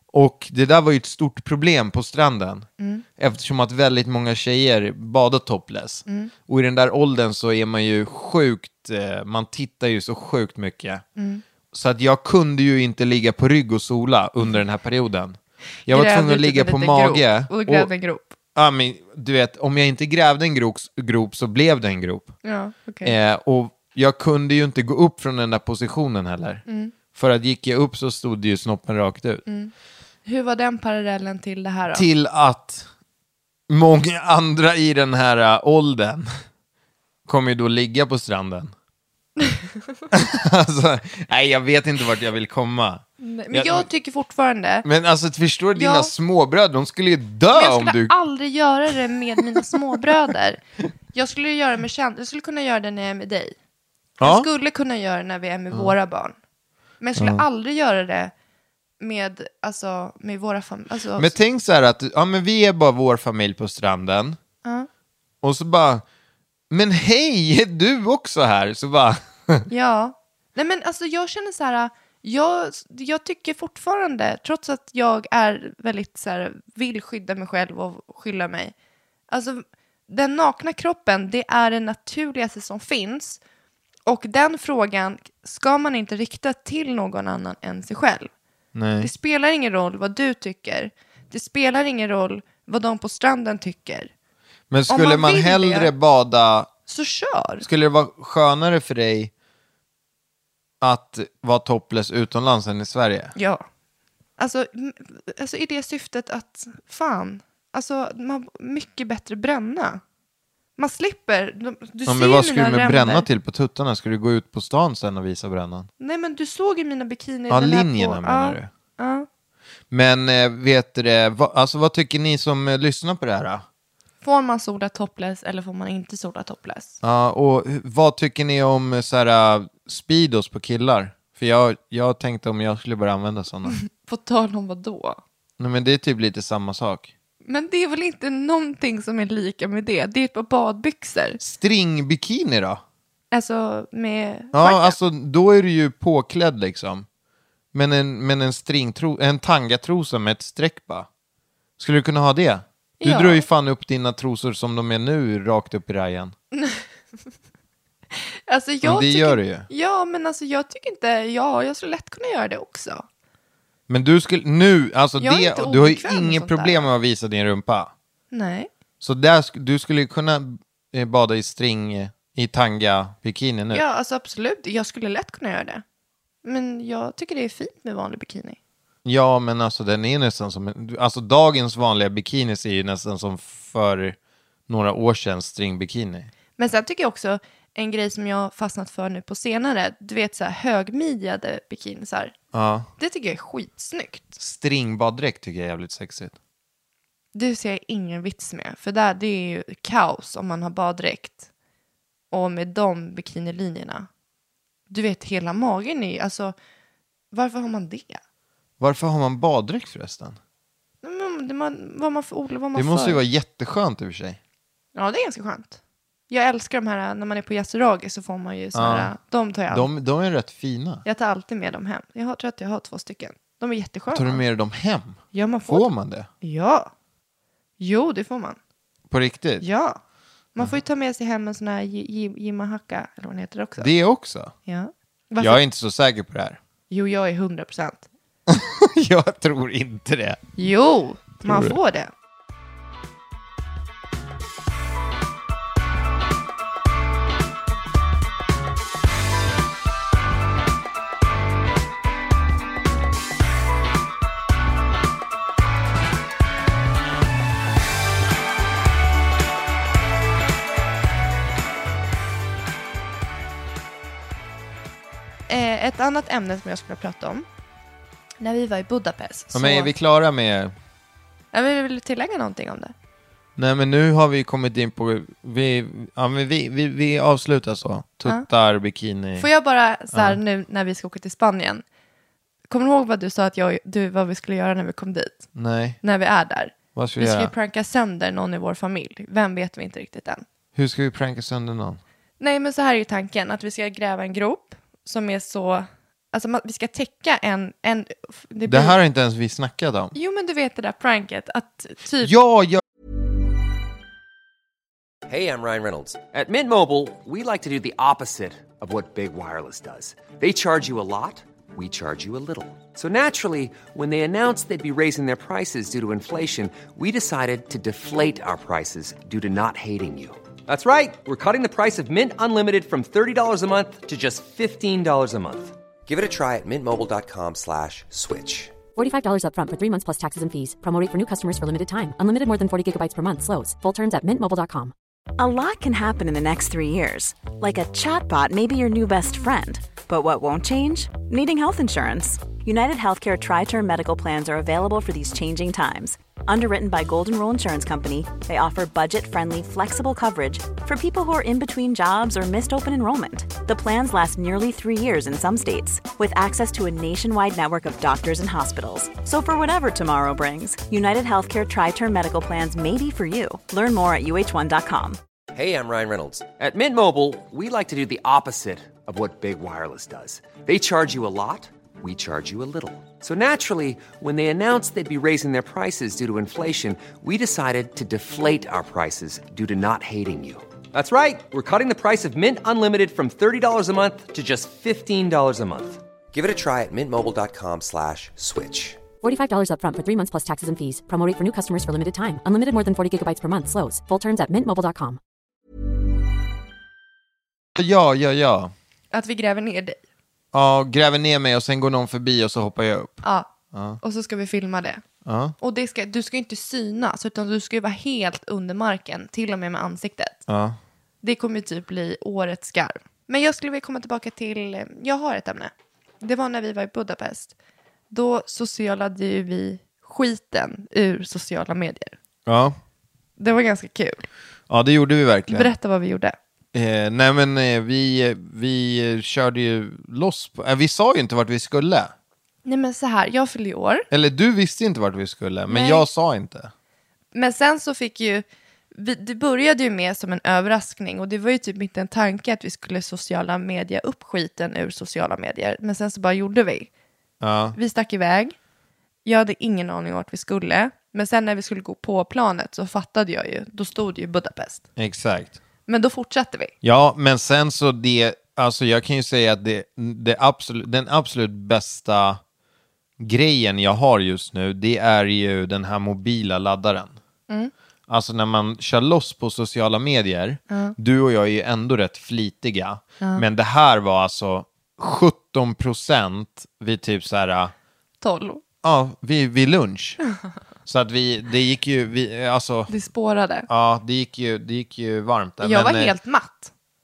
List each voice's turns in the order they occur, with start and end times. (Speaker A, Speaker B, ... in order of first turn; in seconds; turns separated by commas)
Speaker A: 0.1-2.7, Speaker A: 3.2-11.0, Speaker B: 11.2-11.4, Speaker A: 11.7-17.9, Speaker B: 15.9-18.4, Speaker A: 18.6-22.4, Speaker B: 22.4-23.2, Speaker A: 23.0-29.4, Speaker B: 26.7-26.9, Speaker B: 29.5-29.7, Speaker B: 30.2-32.1, Speaker A: 31.9-32.9, Speaker A: 33.7-36.3, Speaker A: 37.3-38.7, Speaker B: 39.4-39.7, Speaker A: 40.1-43.9, Speaker B: 43.2-44.9, Speaker A: 44.9-48.2, Speaker B: 45.8-46.1, Speaker B: 47.5-50.6, Speaker A: 49.4-50.0, Speaker B: 51.1-53.5, Speaker A: 54.2-54.5, Speaker B: 54.2-56.4, Speaker B: 57.0-58.3, Speaker A: 57.2-57.4, Speaker B: 59.0-61.4, Speaker A: 61.2-64.4, Speaker A: 65.4-66.0, Speaker A: 66.7-69.7, Speaker B: 69.7-78.7, Speaker B: 79.3-83.4, Speaker B: 84.1-88.3, Speaker A: 88.7-89.1, Speaker B: 89.0-94.1, Speaker A: 94.7-96.7, Speaker B: 94.9-95.9, Speaker B: 96.9-97.7, Speaker A: 97.6-99.3, Speaker A: 100.8-103.3, Speaker B: 103.4-103.6, Speaker B: 104.4-110.0, Speaker B: 110.8-113.3, Speaker A: 112.1-115.9, Speaker B: 116.0-119.3, Speaker A: 117.5-118.7, Speaker A: 119.9-123.6, Speaker B: 124.2-127.0, Speaker A: 127.0-133.8, Speaker B: 133.7-135.2, Speaker A: 135.6-137.1, Speaker B: 137.5-141.4, Speaker A: 141.4-142.8, Speaker B: 143.3-145.0, Speaker A: 144.5-147.1, Speaker A: 147.7-151.1, Speaker A: 151.8-156.3, Speaker B: 153.0-153.5, Speaker B: 156.5-156.8, Speaker B: 158.2-163.1, Speaker A: 158.8-159.7, Speaker A: 163.9-167.9, Speaker B: 165.2-166.9, Speaker B: 168.3-168.7, Speaker A: 169.0-173.8, Speaker B: 173.7-175.8, Speaker B: 176.4-178.6, Speaker A: 179.1-184.2, Speaker A: 184.7-186.3, Speaker B: 186.6-192.3, Speaker A: 192.5-192.9, Speaker B: 193.0-194.4, Speaker A: 194.4-196.3, Speaker B: 197.3-201.5, Speaker B: 202.3-204.1, Speaker B: 204.9-206.6, Speaker B: 207.3-208.2, Speaker A: 208.8-210.4, Speaker B: 211.0-213.2, Speaker A: 212.8-214.4, Speaker B: 214.9-219.9, Speaker A: 218.7-219.1, Speaker A: 219.7-221.0, Speaker B: 221.1-224.4, Speaker A: 224.1-226.3, Speaker B: 225.3-225.9, Speaker B: 226.4-226.9, Speaker B: 227.8-228.6, Speaker A: 229.1-229.7, Speaker B: 229.6-230.0, Speaker B: 230.6-233.9, Speaker A: 233.8-234.5, Speaker B: 234.7-235.6, Speaker A: 235.4-236.6, Speaker B: 236.9-238.1, Speaker A: 238.5-240.6, Speaker B: 240.6-242.1, Speaker A: 241.4-241.8, Speaker B: 265.5-267.5, Speaker B: 268.4-269.9, Speaker A: 269.5-270.7, Speaker B: 271.5-272.9, Speaker A: 273.6-279.5, Speaker B: 279.4-281.8, Speaker A: 280.1-280.4, Speaker B: 282.7-285.5, Speaker A: 285.5-286.0, Speaker B: 286.0-290.4, Speaker A: 286.9-287.5, Speaker A: 290.8-292.0, Speaker B: 292.4-299.0, Speaker A: 298.7-300.1, Speaker B: 300.1-302.3, Speaker A: 302.2-302.8, Speaker C: 305.3-328.8, Speaker D: 329.0-334.9, Speaker E: 335.4-365.2, Speaker C: 365.5-389.0, Speaker D: 389.2-395.2, Speaker A: 397.8-398.7, Speaker B: 399.1-400.0, Speaker A: 400.5-403.2, Speaker B: 403.2-405.0, Speaker A: 403.7-404.0, Speaker A: 405.2-405.6, Speaker B: 405.6-410.4, Speaker A: 410.5-410.8, Speaker B: 411.2-417.5, Speaker B: 418.1-422.2, Speaker A: 422.5-422.8, Speaker B: 423.4-424.3, Speaker A: 424.7-425.7, Speaker B: 425.5-426.4, Speaker A: 426.7-432.1, Speaker B: 432.6-434.1, Speaker A: 434.1-436.7, Speaker B: 435.7-436.1, Speaker B: 437.3-446.9, Speaker A: 447.4-447.8, Speaker B: 447.8-448.6, Speaker B: 449.2-454.9, Speaker A: 455.0-455.6, Speaker B: 455.9-456.7, Speaker A: 456.8-462.4, Speaker A: 463.2-467.2, Speaker A: 468.1-477.7, Speaker B: 470.7-470.9, Speaker B: 478.2-478.6, Speaker A: 478.8-480.2, Speaker A: 480.9-482.9, Speaker B: 482.9-483.7, Speaker A: 483.7-486.1, Speaker B: 485.6-486.7